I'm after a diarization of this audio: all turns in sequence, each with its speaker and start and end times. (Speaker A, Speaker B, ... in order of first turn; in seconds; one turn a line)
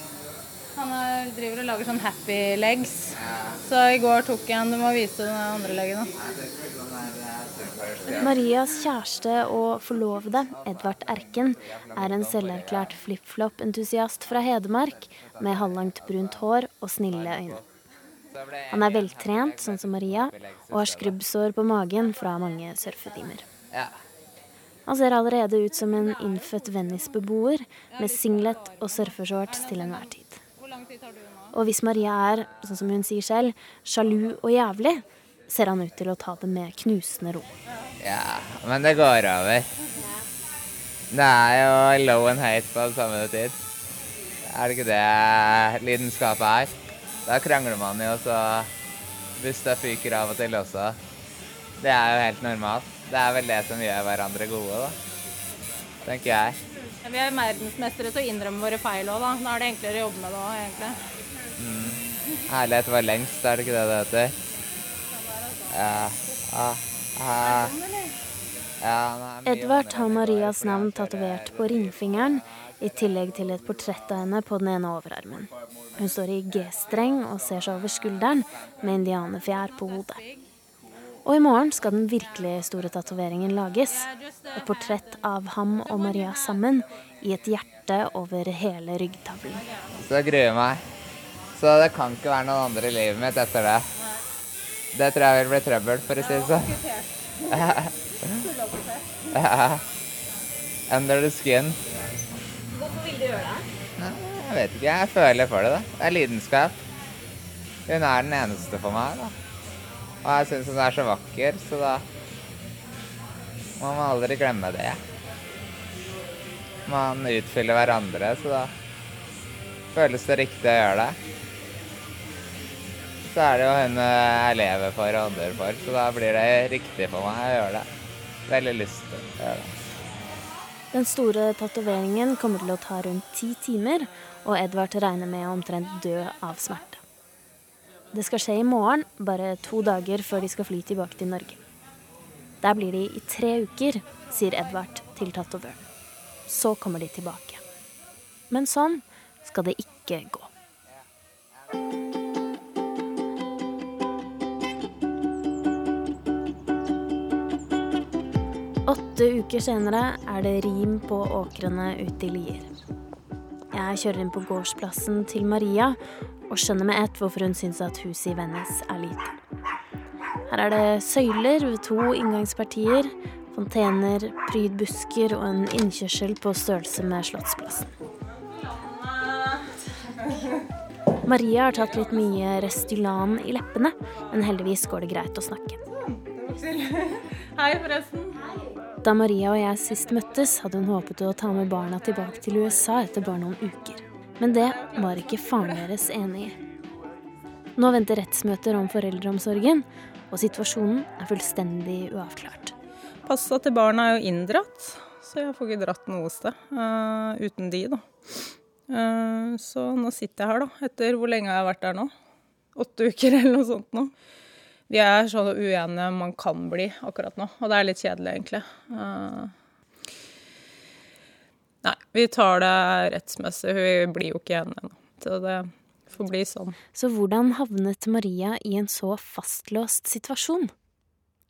Speaker A: 0.8-6.1
Speaker B: 3.2-3.6
Speaker B: 6.2-8.4
Speaker C: 8.2-17.6
Speaker B: 11.7-12.9
Speaker B: 17.2-17.6
Speaker B: 18.3-21.2
Speaker C: 18.7-23.4
Speaker C: 24.9-30.4
Speaker A: 27.9-31.5
Speaker C: 31.5-37.5
Speaker B: 38.0-39.7
Speaker B: 41.1-43.6
Speaker B: 44.5-46.8
Speaker B: 47.3-48.7
Speaker B: 49.4-51.0
Speaker B: 51.8-55.0
Speaker B: 56.0-56.6
Speaker A: 57.0-61.0
Speaker B: 61.6-62.0
Speaker B: 62.5-64.3
Speaker A: 65.4-65.8
Speaker B: 65.7-67.7
Speaker A: 67.4-68.2
Speaker B: 68.8-71.8
Speaker C: 69.5-80.2
Speaker A: 79.9-80.4
Speaker C: 81.2-89.6
Speaker A: 83.9-84.9
Speaker A: 85.9-86.6
Speaker A: 89.5-90.0
Speaker B: 90.0-90.8
Speaker B: 91.5-93.9
Speaker B: 94.9-96.7
Speaker A: 96.2-99.3
Speaker B: 97.6-97.9
Speaker B: 99.3-99.8
Speaker B: 100.9-101.8
Speaker A: 102.8-103.5
Speaker B: 104.0-106.8
Speaker B: 107.9-109.3
Speaker B: 110.2-112.0
Speaker B: 113.8-115.0
Speaker B: 116.9-118.7
Speaker B: 119.9-121.2
Speaker B: 123.3-127.8
Speaker B: 128.5-129.7
Speaker C: 130.9-137.0
Speaker C: 138.1-141.6
Speaker C: 142.6-145.8
Speaker C: 146.5-147.6
Speaker C: 148.5-150.5
Speaker C: 158.9-162.7
Speaker C: 163.7-166.0
Speaker C: 166.5-169.3
Speaker C: 170.5-177.9
Speaker A: 178.3-180.7
Speaker C: 181.2-185.8
Speaker A: 181.7-183.2
Speaker A: 185.9-188.4
Speaker C: 189.0-196.6
Speaker A: 192.1-193.1
Speaker A: 194.5-195.9
Speaker C: 197.8-202.7
Speaker A: 203.3-212.1
Speaker A: 212.8-214.1
Speaker A: 214.9-219.5
Speaker A: 221.8-226.8
Speaker C: 226.9-230.7